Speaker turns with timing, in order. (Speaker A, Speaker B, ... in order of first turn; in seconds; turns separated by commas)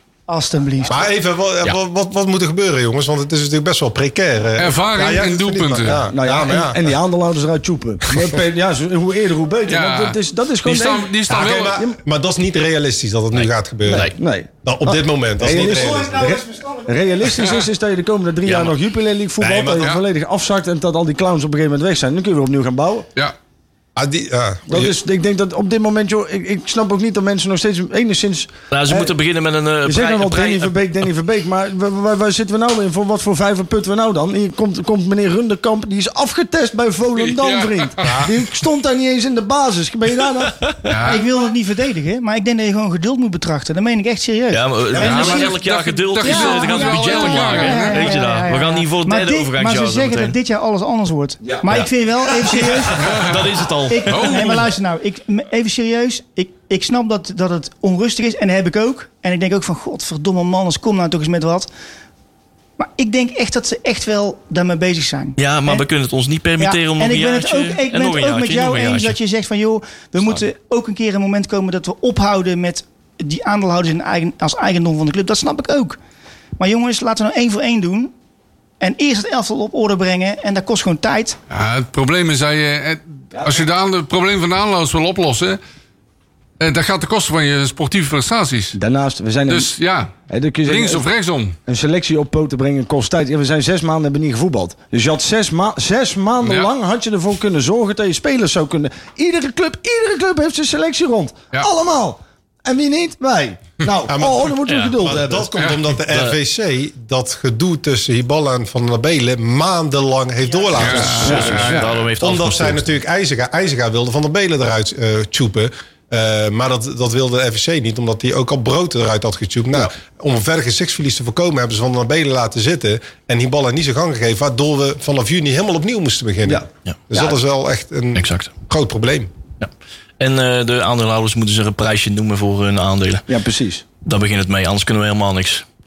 Speaker A: 0.3-1.0, Speaker B: 0.9-7.0, Speaker C: 4.6-6.0, Speaker D: 6.0-11.2, Speaker C: 9.7-11.8, Speaker B: 11.3-14.1, Speaker E: 13.3-14.2, Speaker D: 13.9-23.1, Speaker B: 14.6-16.3, Speaker A: 15.4-17.4, Speaker E: 18.4-18.8, Speaker B: 19.4-19.9, Speaker B: 24.0-24.9, Speaker D: 24.7-29.1, Speaker E: 28.7-30.7, Speaker D: 29.9-40.7, Speaker C: 37.1-38.3, Speaker B: 38.0-38.3, Speaker C: 40.9-41.2, Speaker A: 41.0-45.6, Speaker E: 44.5-50.4, Speaker C: 45.0-48.4, Speaker A: 46.2-53.1, Speaker E: 52.5-54.5, Speaker C: 53.0-53.4, Speaker A: 53.9-61.7, Speaker C: 54.1-54.7, Speaker A: 62.8-65.8, Speaker E: 65.4-69.2, Speaker A: 66.6-76.0, Speaker A: 76.6-78.1, Speaker A: 78.8-81.4, Speaker C: 81.5-85.6, Speaker C: 86.6-88.8, Speaker D: 88.8-89.8, Speaker C: 89.5-91.6, Speaker D: 90.3-91.1, Speaker D: 91.7-105.5, Speaker C: 96.4-96.7, Speaker B: 104.1-129.3, Speaker E: 104.7-105.0, Speaker C: 105.6-105.9, Speaker E: 106.1-106.4, Speaker C: 110.8-112.0, Speaker E: 110.9-112.8, Speaker D: 111.2-111.8, Speaker D: 126.5-127.3, Speaker E: 128.2-128.5, Speaker E: 129.6-133.3, Speaker D: 133.3-133.8, Speaker E: 134.0-135.7